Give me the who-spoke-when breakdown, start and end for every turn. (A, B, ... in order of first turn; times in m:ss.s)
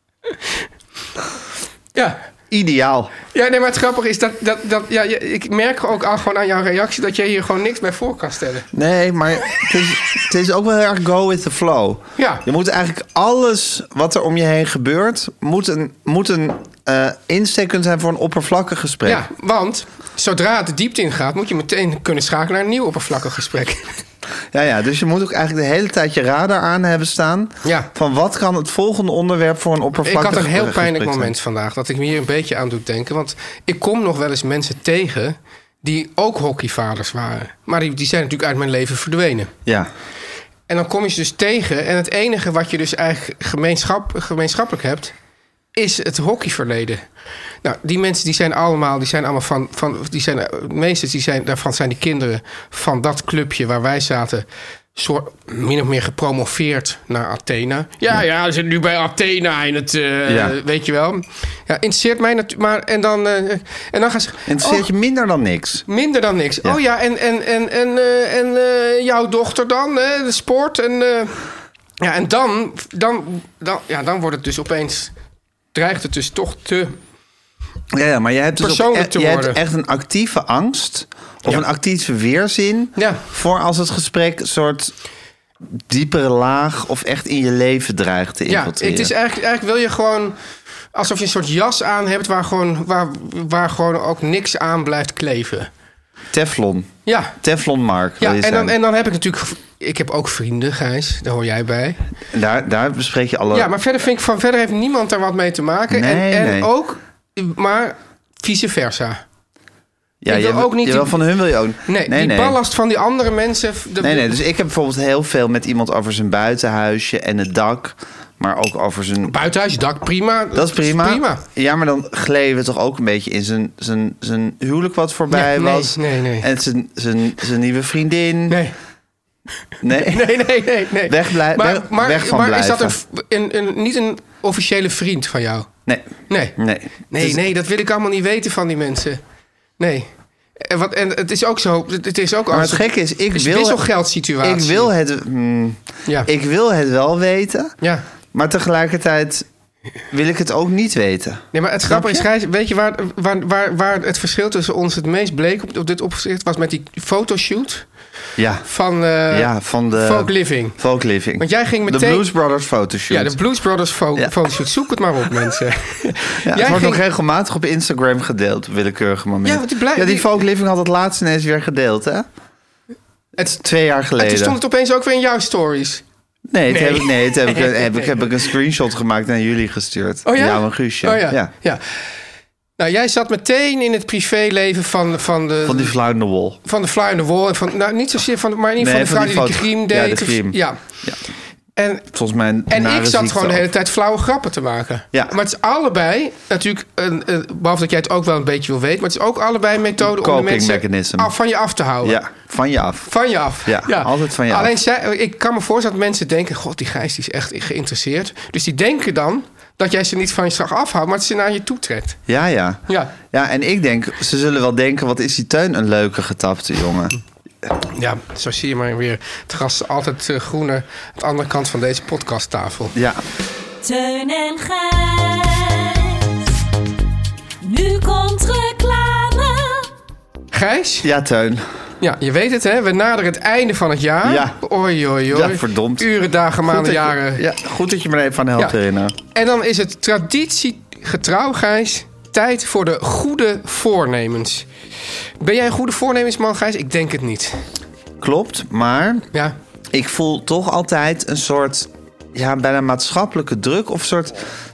0:02.5-0:03.1 A
0:03.3-0:08.7 B
0:08.7-0:19.3 A
0:12.2-0:12.4 B
0:19.0-0:24.0 B
0:24.5-0:31.3 A
0:27.6-0:27.9 B
0:30.0-0:39.5 B
0:39.6-0:39.9 A
0:40.7-0:45.1 B
0:45.8-0:47.0 B
0:47.6-1:04.9 B
1:00.2-1:00.6 A
1:04.5-1:05.8 A
1:05.9-1:11.5 B
1:12.0-1:15.1 B
1:15.7-1:17.0 B
1:17.9-1:24.9 A
1:18.6-1:19.6 B
1:23.0-1:23.2 B
1:25.9-1:29.1 A
1:28.5-1:30.4 B
1:30.9-1:35.7 B
1:36.3-1:36.9 A
1:37.0-1:37.4 B
1:37.4-1:38.7 A
1:38.2-1:42.0 B
1:42.3-1:43.7 A
1:43.5-1:49.2 B
1:45.9-1:46.7 A
1:50.2-1:52.6 A
1:50.3-1:51.2 B
1:51.9-1:54.4 B
1:54.0-1:59.4 A
1:59.2-2:01.4 B
2:00.5-2:08.6 A
2:05.3-2:06.5 B
2:08.5-2:08.7 B
2:09.8-2:10.4 A
2:09.9-2:15.7 B
2:11.1-2:13.0 A
2:15.8-2:17.4 A
2:16.3-2:16.6 B
2:17.1-2:19.2 B
2:19.8-2:24.9 B
2:22.5-2:23.8 A
2:24.4-2:27.7 A
2:28.3-2:29.4 A
2:30.1-2:32.2 A
2:31.5-2:37.8 B
2:38.4-2:38.7 A
2:38.7-2:40.8 B
2:39.3-2:43.4 A
2:41.4-2:42.2 B
2:43.1-2:47.0 B
2:46.4-2:52.2 A
2:49.4-2:50.4 B
2:53.4-2:54.6 A
2:54.2-2:56.0 B
2:56.5-3:01.5 A
2:56.7-2:58.2 B
3:00.2-3:02.0 B
3:02.8-3:05.9 B
3:05.6-3:06.6 A
3:06.6-3:10.8 B
3:08.8-3:11.2 A
3:11.8-3:12.0 B
3:12.1-3:13.7 A
3:12.7-3:22.2 B
3:20.0-3:21.3 A
3:22.0-3:23.1 A
3:23.1-3:32.2 B
3:23.6-3:24.7 A
3:32.3-3:32.8 A
3:32.9-3:33.1 B
3:33.3-3:37.2 A
3:37.9-3:42.9 B
3:42.9-3:43.2 A
3:43.8-3:46.6 C
3:47.6-3:49.9 C
3:50.5-3:51.1 B
3:51.0-3:51.6 A
3:52.0-3:57.4 B
3:54.2-3:54.6 A
3:55.3-3:56.1 A
3:56.6-3:59.1 A
3:59.3-4:04.7 B
4:05.4-4:07.6 B
4:08.2-4:09.3 A
4:09.9-4:14.5 A